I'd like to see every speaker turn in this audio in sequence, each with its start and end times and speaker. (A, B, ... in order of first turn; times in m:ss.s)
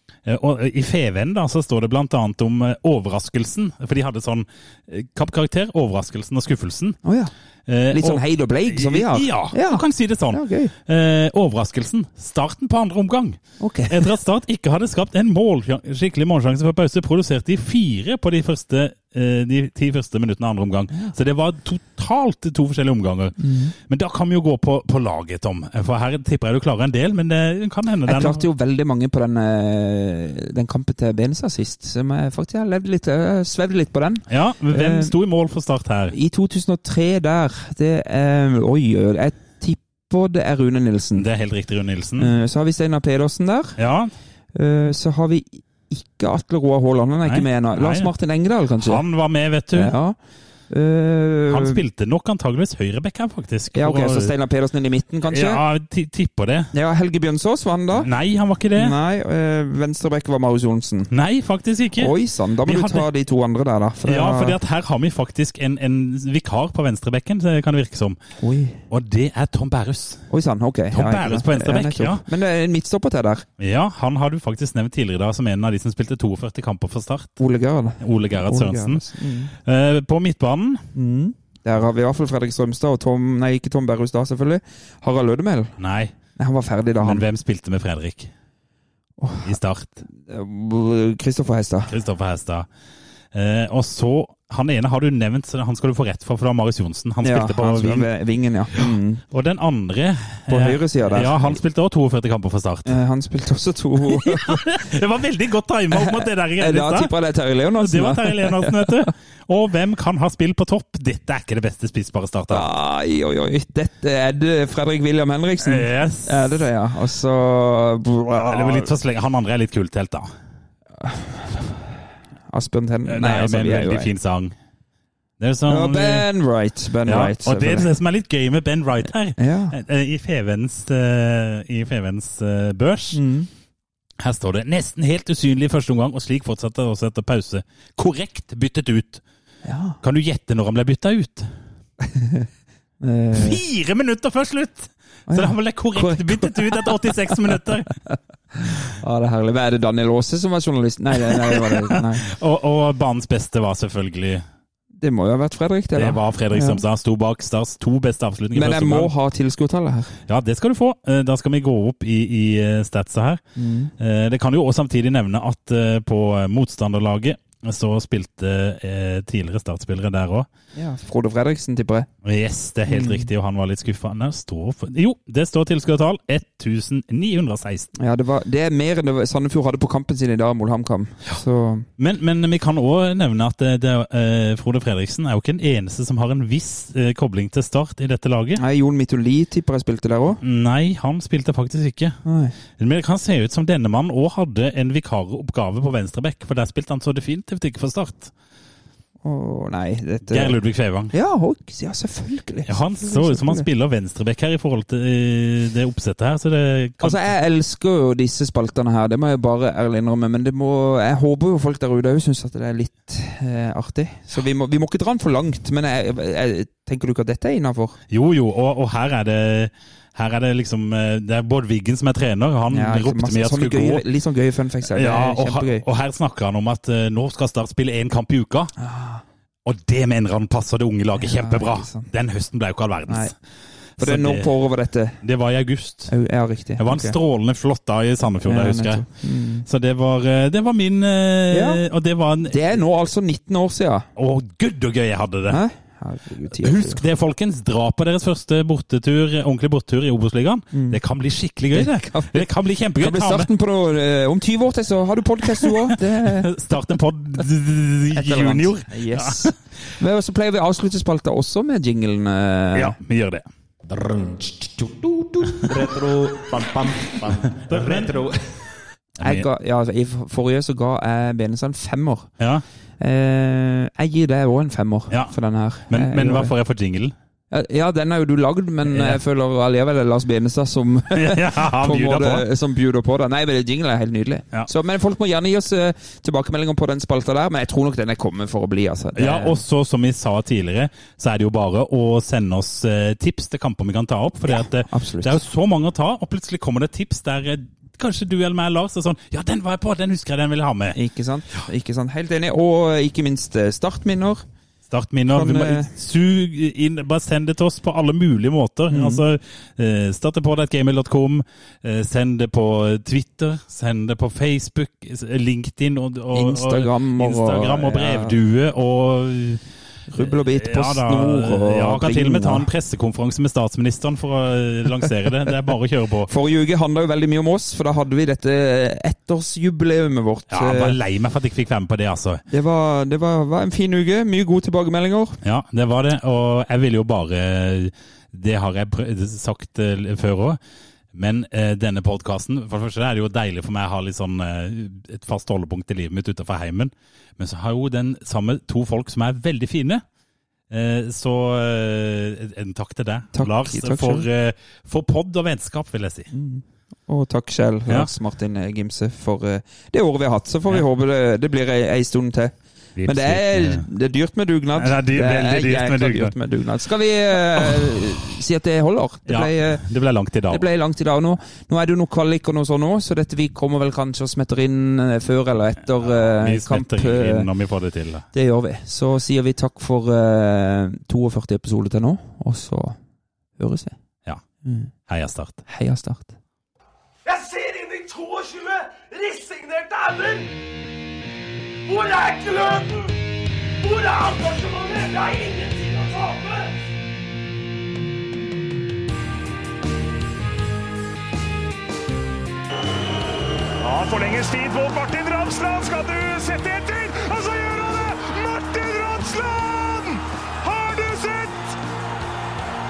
0:00.2-0:07.0 A
0:07.0-0:07.3 B
0:07.7-0:28.4 A
0:07.9-0:10.7 B
0:13.6-0:14.0 B
0:23.4-0:23.7 B
0:28.0-0:35.1 B
0:34.3-0:36.2 A
0:36.1-0:41.3 B
0:41.2-0:42.3 A
0:42.2-0:43.8 B
0:43.8-0:44.1 A
0:44.5-0:49.0 B
0:47.2-0:48.1 A
0:48.8-0:49.9 A
0:49.7-0:50.2 B
0:50.7-0:51.8 B
0:51.5-0:54.3 A
0:53.7-0:55.6 B
0:55.3-0:56.7 A
0:56.7-0:58.1 B
0:58.0-0:59.0 A
0:58.8-1:01.1 B
1:01.1-1:03.1 A
1:02.0-1:04.6 B
1:04.0-1:08.2 A
1:08.4-1:08.8 B
1:08.9-1:10.3 A
1:10.3-1:13.5 B
1:10.9-1:12.2 A
1:13.6-1:17.4 A
1:17.4-1:19.5 B
1:18.0-1:20.9 A
1:21.0-1:25.8 B
1:25.8-1:26.2 A
1:26.4-1:27.3 B
1:27.0-1:28.3 A
1:29.2-1:31.9 B
1:29.4-1:30.0 A
1:31.9-1:32.7 A
1:33.3-1:38.1 A
1:37.2-1:39.2 B
1:38.7-1:43.0 A
1:40.5-1:41.6 B
1:42.9-1:44.8 B
1:44.1-1:47.1 A
1:45.9-1:49.1 B
1:47.8-1:52.7 A
1:52.5-1:58.9 B
1:55.6-1:56.6 A
1:58.4-2:00.3 A
2:01.0-2:04.1 B
2:03.1-2:04.6 A
2:05.4-2:06.3 A
2:05.7-2:07.9 B
2:07.0-2:13.2 A
2:09.4-2:09.8 B
2:13.1-2:13.5 B
2:14.2-2:19.2 A
2:19.6-2:20.0 B
2:20.0-2:21.6 A
2:22.0-2:22.5 B
2:23.0-2:23.6 B
2:23.3-2:27.9 A
2:25.3-2:32.3 B
2:31.3-2:34.4 A
2:34.9-2:36.8 B
2:36.0-2:39.1 A
2:38.6-2:40.2 B
2:40.3-2:43.4 A
2:43.6-2:43.9 B
2:44.0-2:50.5 A
2:50.8-2:52.1 B
2:52.2-2:57.9 A
2:52.9-2:53.3 B
2:58.0-3:01.9 B
3:02.0-3:08.6 A
3:08.6-3:10.4 B
3:10.4-3:12.2 A
3:12.2-3:12.5 B
3:12.8-3:18.3 A
3:19.2-3:20.6 B
3:20.3-3:21.1 A
3:21.1-3:23.7 B
3:22.7-3:27.3 A
3:27.0-3:38.0 B
3:38.1-3:44.0 A
3:42.7-3:45.8 B
3:44.8-3:48.7 A
3:48.8-3:49.2 B
3:49.6-3:53.3 A
3:51.2-3:52.1 B
3:53.1-3:53.3 B
3:54.0-3:54.5 A
3:54.0-3:55.2 B
3:55.2-3:56.1 A
3:56.1-3:57.2 B
3:56.8-3:59.1 A
3:58.4-3:59.7 B
3:59.6-4:02.6 A
4:01.5-4:01.8 B
4:02.5-4:04.1 B
4:04.2-4:05.6 A
4:05.5-4:07.0 B
4:06.5-4:13.5 A
4:10.7-4:11.0 B
4:11.7-4:16.5 B
4:16.4-4:19.5 A
4:18.1-4:23.0 B
4:22.7-4:23.4 A
4:23.8-4:28.7 C
4:27.7-4:28.2 A
4:29.2-4:29.4 A
4:29.2-4:32.3 B
4:32.4-4:32.6 A
4:33.0-4:36.5 B
4:35.9-4:37.1 A
4:37.5-4:49.6 B
4:38.9-4:39.2 A
4:41.1-4:42.5 A
4:49.2-5:01.0 A
4:54.5-4:55.4 B
5:00.9-5:04.5 B
5:04.9-5:19.7 A
5:05.4-5:05.9 B
5:08.9-5:09.2 B
5:16.3-5:18.4 B
5:20.1-5:22.7 B
5:20.2-5:26.3 A
5:26.3-5:31.0 B
5:30.5-5:32.4 A
5:32.5-5:35.4 B
5:35.4-5:40.6 A
5:41.1-5:50.0 A
5:50.7-5:56.3 A
5:53.3-5:54.3 B
5:56.3-6:09.8 B
6:03.0-6:03.9 A
6:04.8-6:06.4 A
6:07.6-6:08.0 A
6:09.3-6:10.7 A
6:10.5-6:17.5 B
6:16.0-6:18.3 A
6:18.3-6:23.0 B
6:23.6-6:24.0 B
6:24.6-6:24.9 B
6:25.1-6:25.6 A
6:25.7-6:26.4 B
6:27.3-6:30.6 D
6:31.9-6:33.1 D
6:33.8-6:36.8 D
6:43.8-6:51.8 E